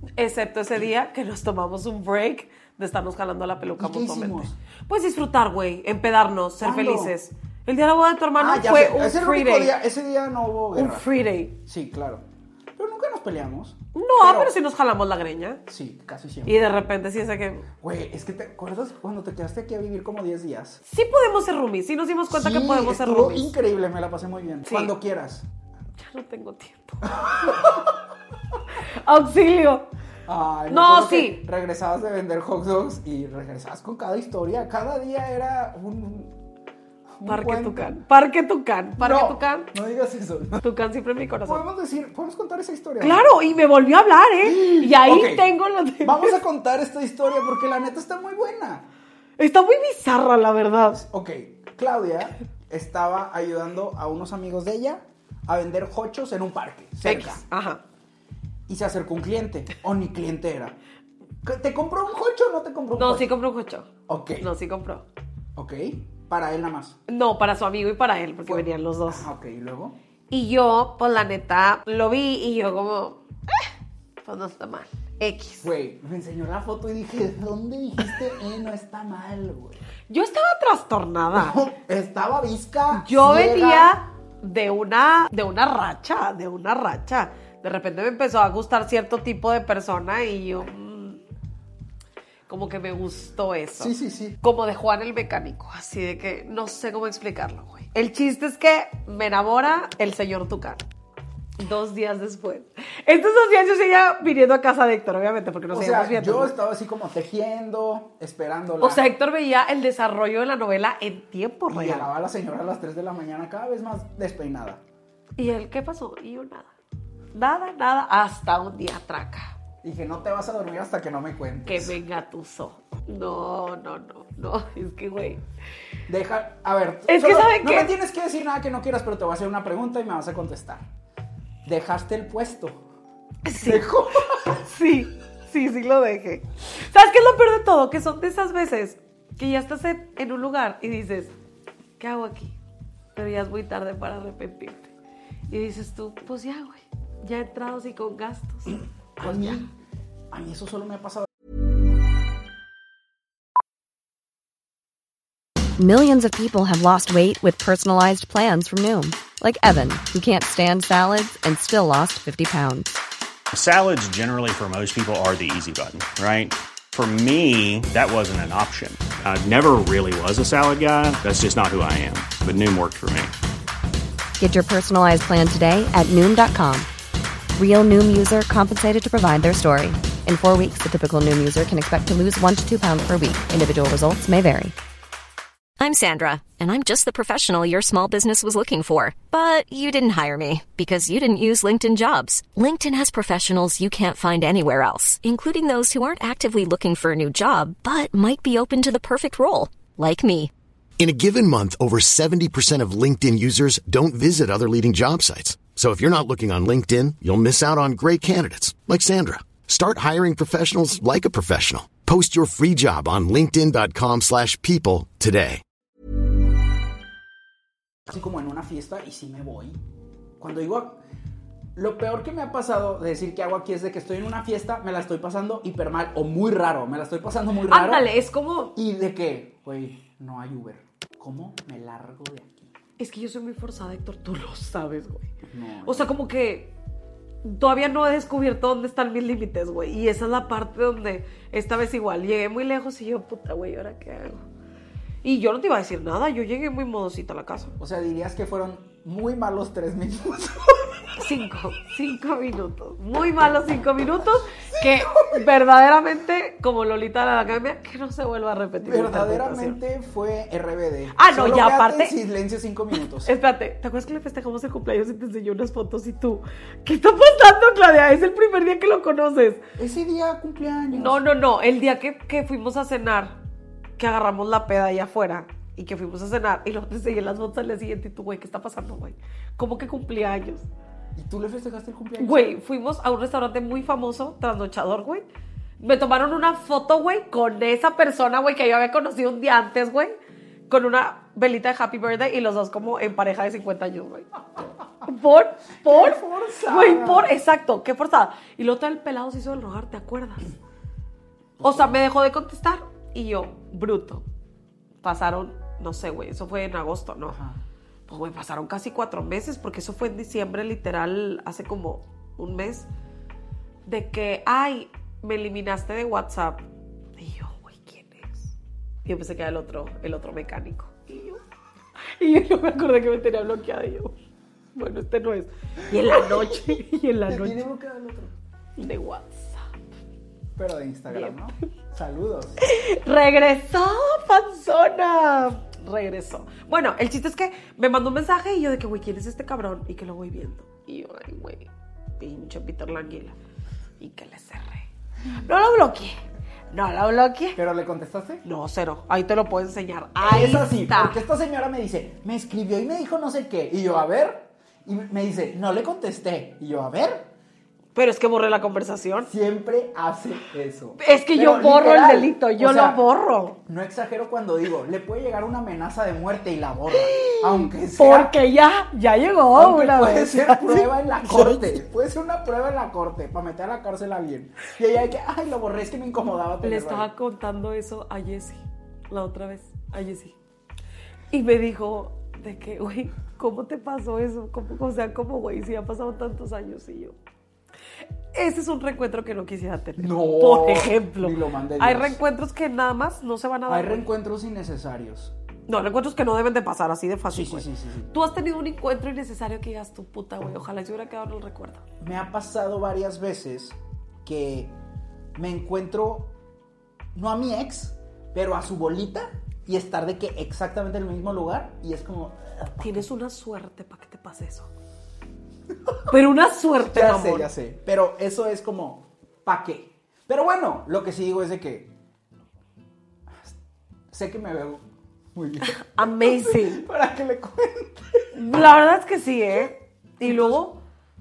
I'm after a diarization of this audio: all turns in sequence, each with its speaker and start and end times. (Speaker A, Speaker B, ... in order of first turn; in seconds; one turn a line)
Speaker A: 0.2-9.8
Speaker B: 3.8-4.6
Speaker B: 6.6-7.1
Speaker B: 8.4-11.1
Speaker A: 10.7-11.6
Speaker B: 11.6-12.2
Speaker B: 12.8-14.5
Speaker A: 13.9-15.6
Speaker B: 15.7-16.6
Speaker A: 16.5-17.6
Speaker B: 17.8-20.8
Speaker A: 20.8-23.5
Speaker B: 22.3-25.4
Speaker A: 24.6-24.9
Speaker A: 26.0-27.8
Speaker B: 27.1-27.9
Speaker A: 28.8-29.9
Speaker B: 30.2-36.4
Speaker A: 30.7-31.4
Speaker B: 37.1-38.0
Speaker A: 37.2-39.7
Speaker B: 39.0-40.6
Speaker A: 40.6-41.6
Speaker B: 41.4-43.3
Speaker A: 43.0-46.4
Speaker B: 44.4-45.5
Speaker B: 46.0-48.9
Speaker A: 49.4-51.0
Speaker B: 50.9-57.4
Speaker A: 57.0-57.8
Speaker B: 58.7-60.8
Speaker B: 61.4-63.3
Speaker A: 63.0-65.0
Speaker B: 64.1-64.5
Speaker B: 65.5-67.0
Speaker A: 67.1-69.3
Speaker B: 68.4-70.0
Speaker A: 70.3-73.7
Speaker A: 74.2-75.7
Speaker B: 75.6-79.8
Speaker A: 80.1-81.6
Speaker B: 81.3-83.9
Speaker A: 82.9-91.2
Speaker A: 92.5-100.8
Speaker B: 93.8-94.4
Speaker A: 101.6-106.5
Speaker B: 105.7-109.0
Speaker A: 108.8-112.1
Speaker B: 111.7-114.8
Speaker A: 115.4-116.7
Speaker A: 117.3-119.5
Speaker B: 119.8-122.0
Speaker A: 121.7-125.4
Speaker B: 126.1-130.8
Speaker A: 127.1-127.9
Speaker B: 131.6-132.8
Speaker A: 133.4-133.9
Speaker B: 133.6-134.6
Speaker A: 134.5-141.3
Speaker A: 142.0-142.6
Speaker A: 143.1-144.9
Speaker A: 145.5-149.6
Speaker B: 149.2-149.7
Speaker B: 150.3-151.3
Speaker C: 155.8-163.0
Speaker D: 163.5-173.3
Speaker C: 174.4-176.9
Speaker C: 177.6-184.7
Speaker E: 185.8-200.5
Speaker F: 201.0-215.6
Speaker B: 218.1-219.8
Speaker B: 220.4-221.0
Speaker B: 221.8-228.1
Speaker A: 227.7-228.7
Speaker B: 228.7-232.7
Speaker A: 233.0-235.3
Speaker B: 235.4-236.1
Speaker A: 235.8-236.7
Speaker A: 237.4-244.4
Speaker A: 245.2-247.7
Speaker B: 247.8-251.0
Speaker A: 251.2-259.8
Speaker B: 254.6-255.4
Speaker B: 258.8-263.3
Speaker A: 261.1-262.1
Speaker A: 263.2-269.6
Speaker B: 269.8-271.2
Speaker A: 270.9-273.4
Speaker A: 274.0-280.7
Speaker B: 281.1-282.6
Speaker A: 282.2-285.2
Speaker A: 285.8-290.1
Speaker A: 290.7-294.3
Speaker A: 295.0-300.4
Speaker B: 295.8-297.3
Speaker B: 301.6-301.9
Speaker A: 301.6-304.2
Speaker A: 305.0-307.4
Speaker B: 307.3-307.6
Speaker A: 308.1-312.9
Speaker A: 313.9-316.6
Speaker A: 317.2-318.5
Speaker A: 319.0-321.4
Speaker A: 322.2-324.1
Speaker A: 324.7-327.6
Speaker B: 326.0-326.6
Speaker B: 327.3-328.3
Speaker A: 328.8-329.6
Speaker B: 330.6-332.6
Speaker A: 332.6-343.4
Speaker A: 344.0-347.6
Speaker B: 347.5-348.4
Speaker A: 348.4-351.2
Speaker B: 350.2-357.3
Speaker A: 357.9-359.3
Speaker B: 359.2-363.0
Speaker A: 361.0-363.6
Speaker B: 363.6-368.4
Speaker A: 366.9-371.7
Speaker B: 369.5-377.1
Speaker A: 376.6-380.4
Speaker A: 381.3-387.1
Speaker A: 388.3-394.0
Speaker B: 390.0-392.2
Speaker B: 393.7-395.3
Speaker A: 395.7-401.8
Speaker B: 397.3-398.1
Speaker B: 402.0-404.7
Speaker B: 405.3-406.3
Speaker B: 407.1-413.1
Speaker A: 412.8-414.7
Speaker A: 416.1-417.5
Speaker B: 416.8-421.9
Speaker B: 424.1-428.3
Speaker A: 425.6-426.8
Speaker A: 428.3-430.8
Speaker B: 430.2-430.7